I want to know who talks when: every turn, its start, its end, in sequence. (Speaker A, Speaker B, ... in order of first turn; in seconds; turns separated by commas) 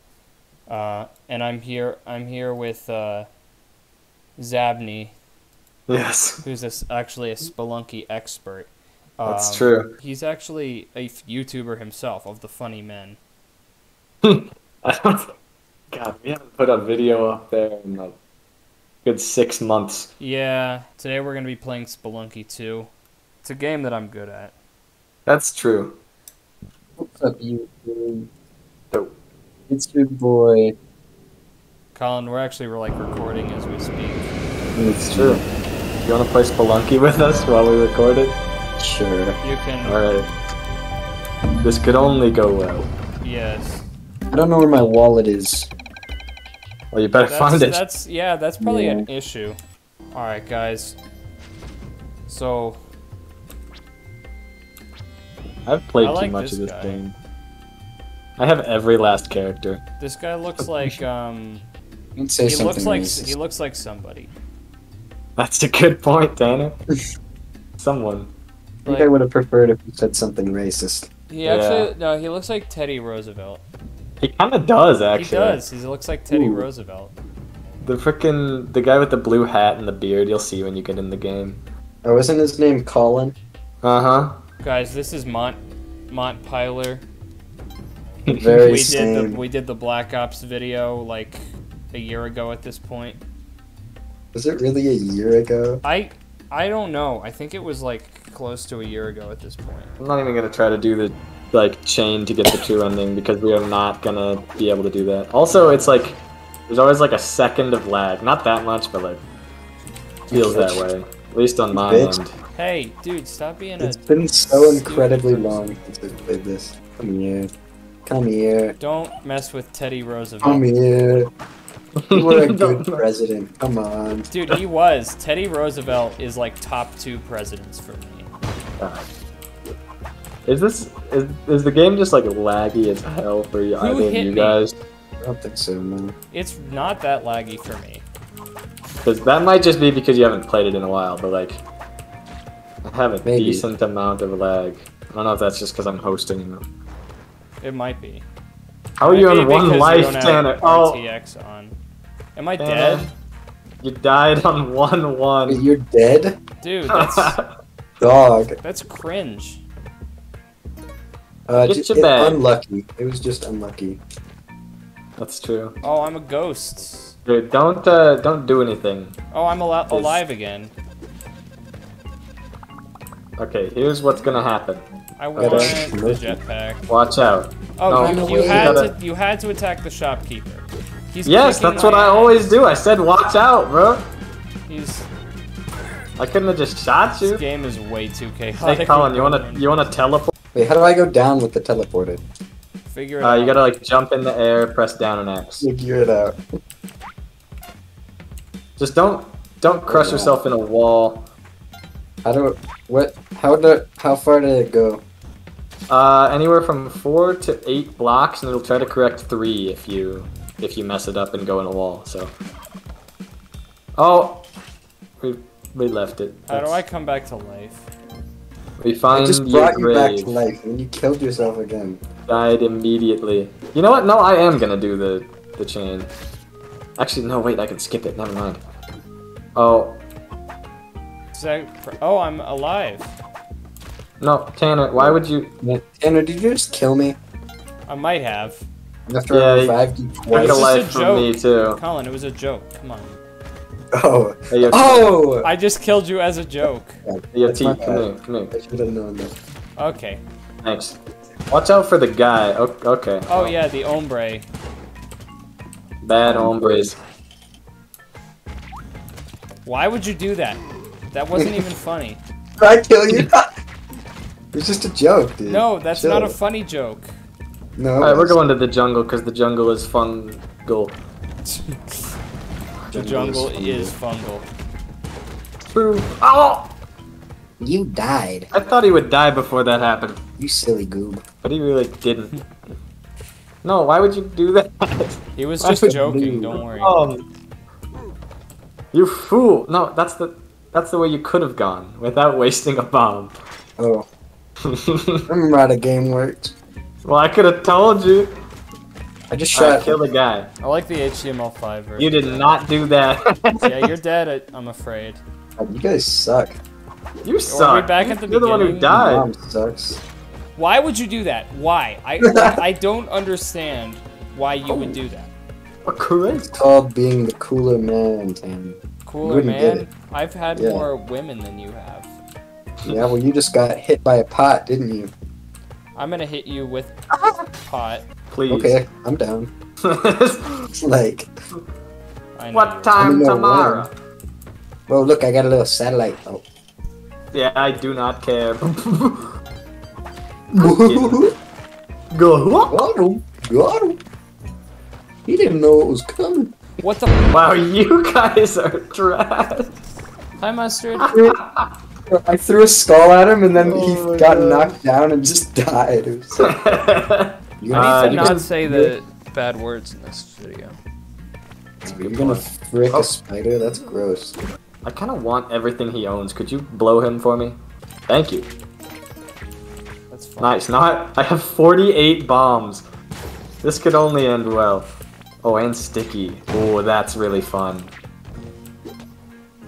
Speaker A: 0.7-3.3, Speaker A: 4.4-5.1, Speaker B: 5.9-6.4, Speaker A: 6.4-13.2, Speaker B: 9.2-9.9, Speaker B: 14.2-15.3, Speaker B: 15.9-18.2, Speaker B: 19.0-20.1, Speaker A: 20.2-22.9, Speaker A: 23.4-24.5, Speaker B: 25.2-26.0, Speaker C: 27.0-28.3, Speaker C: 29.7-30.7, Speaker A: 31.9-34.3, Speaker C: 34.7-35.4, Speaker B: 35.1-35.4, Speaker B: 36.0-38.4, Speaker C: 38.8-39.4, Speaker A: 39.4-40.1, Speaker B: 39.8-40.3, Speaker B: 41.6-42.9, Speaker A: 43.2-43.8, Speaker C: 44.3-45.7, Speaker B: 46.9-47.8, Speaker A: 47.2-49.6, Speaker C: 48.6-49.1, Speaker A: 50.1-51.0, Speaker A: 52.3-52.8, Speaker B: 55.6-57.1, Speaker A: 56.0-57.0, Speaker B: 58.4-59.8, Speaker A: 60.0-61.6, Speaker C: 62.1-63.3, Speaker A: 62.5-64.3, Speaker B: 65.4-66.8, Speaker B: 67.8-68.3, Speaker C: 68.8-71.1, Speaker A: 68.8-69.1, Speaker A: 71.3-73.6, Speaker B: 71.4-71.9, Speaker B: 74.2-75.6, Speaker A: 75.1-77.1, Speaker C: 76.3-76.6, Speaker B: 77.8-81.6, Speaker C: 82.0-83.3, Speaker B: 83.8-84.4, Speaker A: 84.6-87.0, Speaker B: 88.2-88.8, Speaker C: 88.3-89.4, Speaker A: 88.7-93.2, Speaker C: 94.3-95.8, Speaker A: 95.8-99.9, Speaker B: 100.0-106.2, Speaker A: 105.5-106.1, Speaker B: 106.7-109.2, Speaker C: 110.3-110.8, Speaker B: 110.3-112.3, Speaker C: 111.7-112.2, Speaker A: 112.5-115.7, Speaker C: 113.8-117.5, Speaker C: 118.0-118.8, Speaker A: 118.8-120.6, Speaker C: 120.4-121.3, Speaker B: 122.0-123.0, Speaker C: 122.1-124.3, Speaker A: 124.3-128.3, Speaker B: 128.8-129.1, Speaker B: 130.4-134.7, Speaker A: 133.8-134.6, Speaker C: 135.2-136.1, Speaker A: 136.3-138.0, Speaker B: 139.0-141.6, Speaker B: 142.8-146.6, Speaker C: 143.2-143.7, Speaker A: 147.6-148.2, Speaker B: 149.0-151.0, Speaker A: 149.0-151.8, Speaker A: 152.3-153.1, Speaker B: 152.6-153.1, Speaker B: 153.8-155.6, Speaker C: 155.5-156.4, Speaker A: 156.6-157.4, Speaker B: 156.9-157.5, Speaker C: 158.0-158.6, Speaker A: 158.6-159.6, Speaker C: 161.5-164.0, Speaker B: 161.6-162.4, Speaker B: 165.2-165.8, Speaker A: 165.8-167.2, Speaker B: 167.2-169.1, Speaker A: 169.3-170.7, Speaker B: 169.9-170.2, Speaker B: 173.4-174.8, Speaker A: 175.2-176.8, Speaker B: 175.3-175.8, Speaker C: 175.4-176.4, Speaker B: 176.9-178.9, Speaker A: 177.8-182.6, Speaker C: 177.9-178.9, Speaker B: 181.2-184.1, Speaker A: 184.7-185.1, Speaker B: 186.2-187.4, Speaker A: 187.2-189.7, Speaker B: 188.6-190.3, Speaker C: 190.5-192.2, Speaker A: 192.9-193.6, Speaker B: 193.2-195.7, Speaker C: 195.6-196.4, Speaker B: 198.8-201.3, Speaker C: 199.9-200.5, Speaker C: 202.2-205.0, Speaker B: 205.9-212.3, Speaker B: 214.0-214.5, Speaker B: 215.2-216.8, Speaker A: 216.5-217.8, Speaker B: 218.8-220.3, Speaker C: 219.1-222.0, Speaker B: 222.3-226.1, Speaker B: 227.0-228.6, Speaker B: 229.6-230.0, Speaker A: 231.3-233.1, Speaker B: 234.2-235.5, Speaker C: 235.0-237.2, Speaker A: 237.9-238.6, Speaker C: 239.1-240.7, Speaker B: 239.3-239.8, Speaker B: 240.3-241.8, Speaker A: 240.3-243.2, Speaker C: 243.9-245.5, Speaker B: 244.5-245.2, Speaker A: 245.4-247.0, Speaker C: 247.0-249.3, Speaker B: 247.3-248.5, Speaker A: 249.8-250.2, Speaker B: 250.6-251.0, Speaker B: 251.5-253.6, Speaker A: 253.3-254.4, Speaker B: 256.0-257.0, Speaker C: 256.2-256.9, Speaker A: 259.6-262.2, Speaker C: 261.4-261.6, Speaker C: 262.6-263.5, Speaker C: 264.5-266.3, Speaker A: 265.5-267.1, Speaker C: 267.8-268.4, Speaker B: 268.0-271.0, Speaker A: 271.4-272.1, Speaker C: 272.9-273.9, Speaker A: 272.9-274.4, Speaker B: 275.7-276.7, Speaker C: 277.6-278.5, Speaker B: 278.5-280.2, Speaker C: 280.4-281.2, Speaker B: 281.4-282.4, Speaker B: 283.6-285.9, Speaker A: 285.3-287.0, Speaker C: 285.8-286.6, Speaker B: 286.6-287.2, Speaker B: 288.9-293.4, Speaker C: 293.8-294.1, Speaker B: 294.6-295.2, Speaker C: 295.3-296.5, Speaker B: 297.0-298.3, Speaker C: 299.3-299.9, Speaker B: 299.5-300.5, Speaker A: 300.6-302.5, Speaker B: 302.0-303.9, Speaker A: 303.6-305.2, Speaker C: 305.6-306.6, Speaker B: 307.2-309.3, Speaker A: 307.5-309.0, Speaker C: 308.9-310.0, Speaker A: 310.6-315.3, Speaker C: 312.2-312.6, Speaker B: 315.8-316.6, Speaker C: 316.5-319.9, Speaker A: 319.0-322.1, Speaker C: 320.5-320.9, Speaker C: 322.8-325.1, Speaker B: 322.8-323.1, Speaker A: 325.9-328.0, Speaker B: 328.3-328.8, Speaker C: 328.5-329.5, Speaker B: 329.8-330.7, Speaker C: 330.7-331.3, Speaker A: 332.4-333.2, Speaker B: 332.5-333.9, Speaker C: 333.0-333.9, Speaker C: 334.9-336.4, Speaker B: 337.3-339.3, Speaker C: 340.5-341.3, Speaker B: 340.6-341.2, Speaker B: 342.1-342.8, Speaker C: 342.7-344.0, Speaker C: 345.2-346.5, Speaker A: 346.8-347.3, Speaker B: 347.3-349.8, Speaker A: 350.4-351.2, Speaker B: 351.0-351.7, Speaker C: 352.1-356.7, Speaker B: 353.6-354.8, Speaker B: 356.4-358.5, Speaker C: 357.6-358.9, Speaker A: 357.7-360.8, Speaker C: 361.8-364.3, Speaker B: 361.8-363.1, Speaker B: 364.8-367.6, Speaker B: 368.1-368.5, Speaker A: 370.1-370.6, Speaker B: 370.4-372.8, Speaker B: 373.6-377.9